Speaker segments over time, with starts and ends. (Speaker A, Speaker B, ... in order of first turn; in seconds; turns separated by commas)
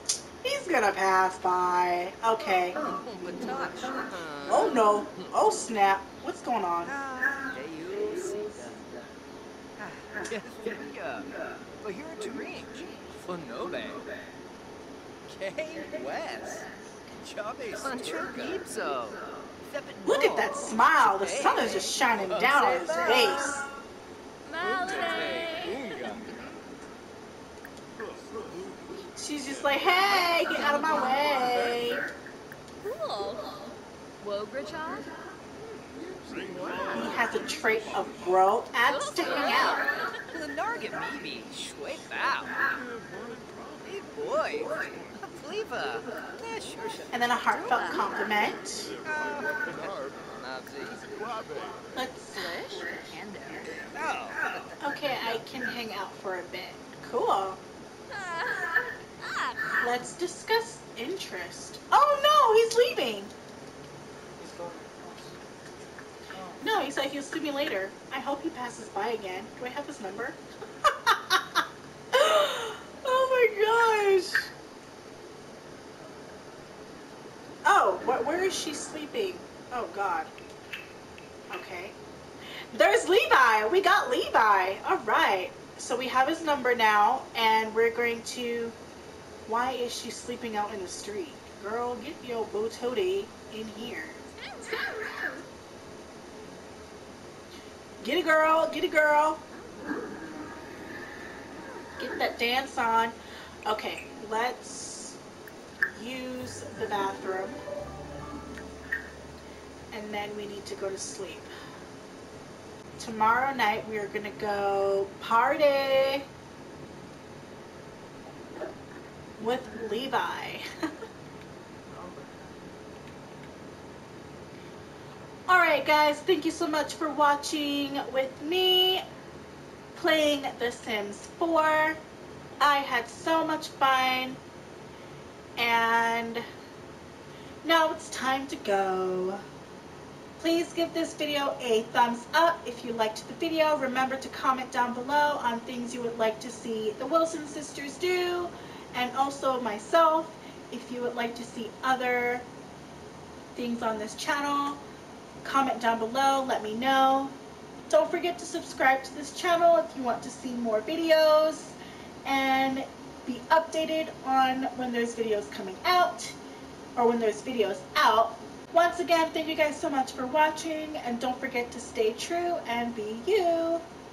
Speaker A: 0.4-2.8, Speaker B: 2.8-5.2, Speaker A: 4.4-7.0, Speaker B: 6.8-8.8, Speaker B: 9.8-11.3, Speaker B: 11.8-14.0, Speaker B: 15.3-23.5, Speaker A: 20.0-23.6, Speaker C: 24.4-26.0, Speaker B: 24.6-26.3, Speaker A: 29.2-32.0, Speaker C: 32.8-33.5, Speaker C: 34.2-35.1, Speaker B: 36.4-37.1, Speaker A: 36.9-39.9, Speaker C: 38.8-40.1, Speaker B: 40.3-42.6, Speaker B: 43.8-47.2, Speaker A: 47.1-48.9, Speaker B: 49.0-51.6, Speaker A: 52.0-52.6, Speaker C: 52.3-53.7, Speaker B: 53.8-54.5, Speaker A: 54.8-57.6, Speaker C: 58.1-59.6, Speaker A: 59.8-63.3, Speaker D: 64.4-65.4, Speaker D: 66.3-66.6, Speaker A: 66.6-74.5, Speaker A: 77.6-80.3, Speaker A: 81.5-82.0, Speaker A: 82.7-88.7, Speaker A: 89.5-94.2, Speaker C: 94.4-95.3, Speaker A: 98.0-99.4, Speaker A: 102.0-103.1, Speaker A: 103.7-105.2, Speaker A: 105.9-107.6, Speaker A: 109.9-111.5, Speaker A: 113.0-116.3, Speaker A: 119.4-120.7, Speaker D: 121.9-122.5, Speaker A: 125.5-129.0, Speaker A: 129.9-132.0, Speaker A: 132.6-134.4, Speaker A: 135.6-136.4, Speaker A: 137.6-139.4, Speaker A: 140.4-152.4, Speaker A: 153.5-154.8, Speaker A: 155.4-157.3, Speaker A: 157.9-166.3, Speaker A: 166.9-173.8